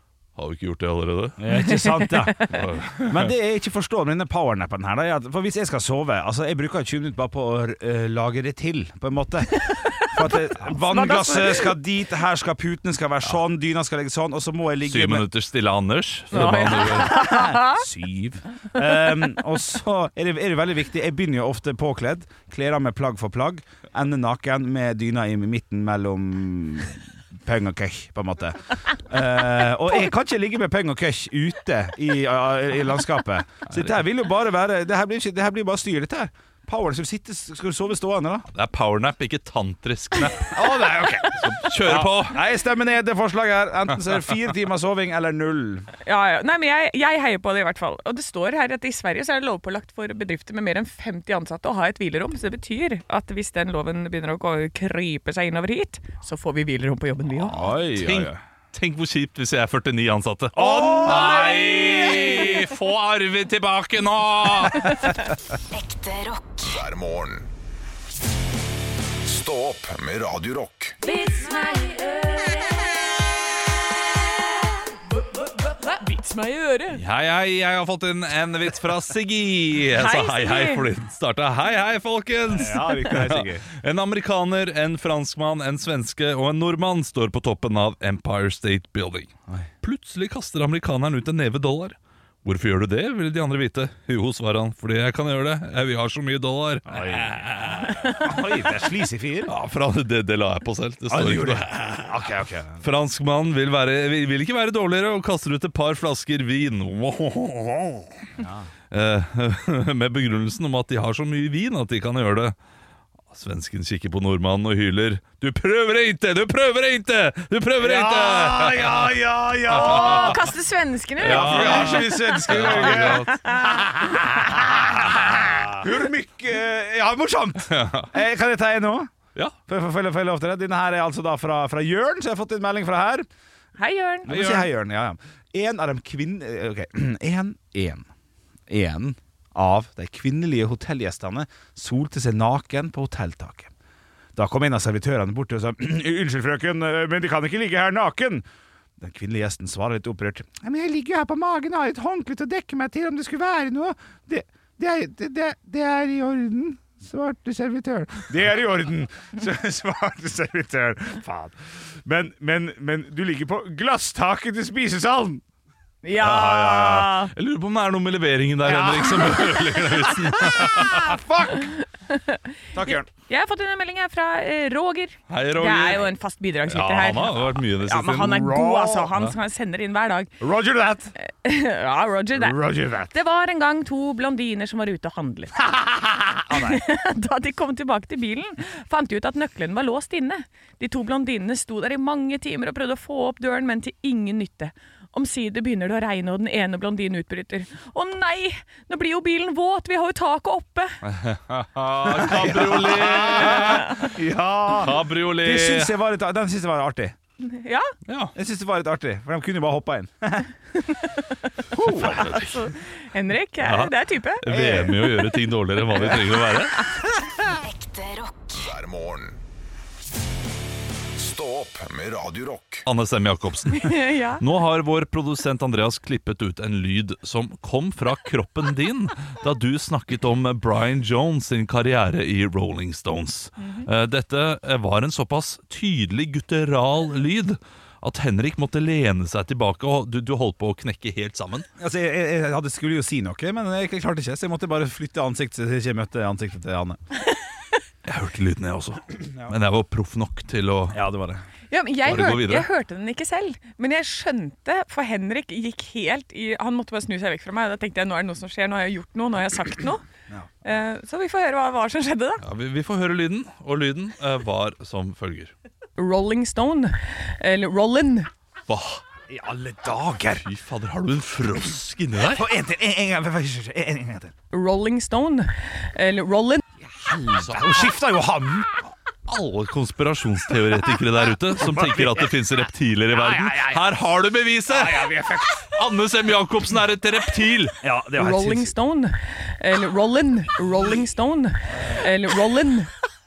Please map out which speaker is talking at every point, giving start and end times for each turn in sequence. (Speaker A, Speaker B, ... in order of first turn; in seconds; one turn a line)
Speaker A: 0.3-1.4
Speaker B: 1.4-15.3
Speaker C: 1.6-2.6
Speaker A: 2.5-3.3
Speaker C: 9.5-11.7
Speaker A: 14.8-17.4
Speaker C: 16.3-17.8
Speaker B: 16.7-38.5
Speaker A: 38.5-42.4
Speaker B: 40.5-45.9
Speaker C: 46.0-57.6
Speaker B: 57.5-58.4
Speaker A: 57.7-65.1
Speaker B: 60.5-62.2
Speaker C: 60.6-62.6
Speaker D: 65.7-67.5
Speaker D: 69.2-71.0
Speaker C: 71.0-72.8
Speaker C: 75.2-77.0
Speaker A: 76.9-98.4
Speaker C: 79.9-80.8
Speaker B: 82.5-83.7
Speaker B: 96.9-97.4
Speaker B: 98.0-99.5
Speaker A: 99.5-102.3
Speaker B: 101.1-102.8
Speaker A: 102.8-108.2
Speaker B: 108.4-108.7
Speaker A: 108.9-112.5
Speaker A: 113.3-120.4
Speaker B: 117.8-120.4
Speaker C: 119.7-124.4
Speaker A: 121.2-123.4
Speaker B: 121.2-129.1
Speaker A: 127.7-128.1
Speaker B: 129.7-133.3
Speaker C: 133.8-134.5
Speaker B: 134.2-138.1
Speaker A: 134.3-134.6
Speaker B: 138.7-143.7
Speaker B: 144.3-148.4
Speaker B: 149.0-165.4
Speaker C: 166.0-167.3
Speaker A: 166.2-171.2
Speaker B: 168.6-171.7
Speaker C: 171.7-172.4
Speaker B: 172.7-173.1
Speaker C: 173.2-180.3
Speaker A: 175.3-176.1
Speaker A: 176.7-178.5
Speaker B: 178.5-179.1
Speaker B: 180.4-181.1
Speaker C: 181.2-201.0
Speaker B: 182.3-183.1
Speaker B: 186.5-186.8
Speaker A: 201.0-204.1
Speaker B: 202.0-207.1
Speaker A: 204.7-205.9
Speaker C: 207.4-207.9
Speaker A: 208.1-208.3
Speaker B: 208.3-210.5
Speaker C: 210.8-214.4
Speaker B: 211.7-212.4
Speaker A: 211.8-212.7
Speaker A: 213.6-216.8
Speaker B: 214.5-215.1
Speaker B: 215.9-216.2
Speaker D: 217.6-219.4
Speaker D: 221.1-222.8
Speaker A: 222.8-241.7
Speaker C: 223.7-224.4
Speaker B: 241.8-247.0
Speaker A: 248.0-251.0
Speaker B: 250.9-251.4
Speaker C: 251.7-260.0
Speaker A: 252.0-252.7
Speaker C: 260.6-262.4
Speaker A: 262.4-265.5
Speaker C: 266.0-268.3
Speaker A: 268.7-269.0
Speaker B: 269.3-270.4
Speaker A: 270.4-272.4
Speaker B: 272.2-274.3
Speaker C: 274.5-276.6
Speaker B: 276.8-278.7
Speaker A: 277.3-277.9
Speaker A: 279.3-287.8
Speaker B: 281.6-282.3
Speaker B: 283.1-283.9
Speaker B: 284.7-285.7
Speaker B: 287.8-288.7
Speaker C: 288.1-292.9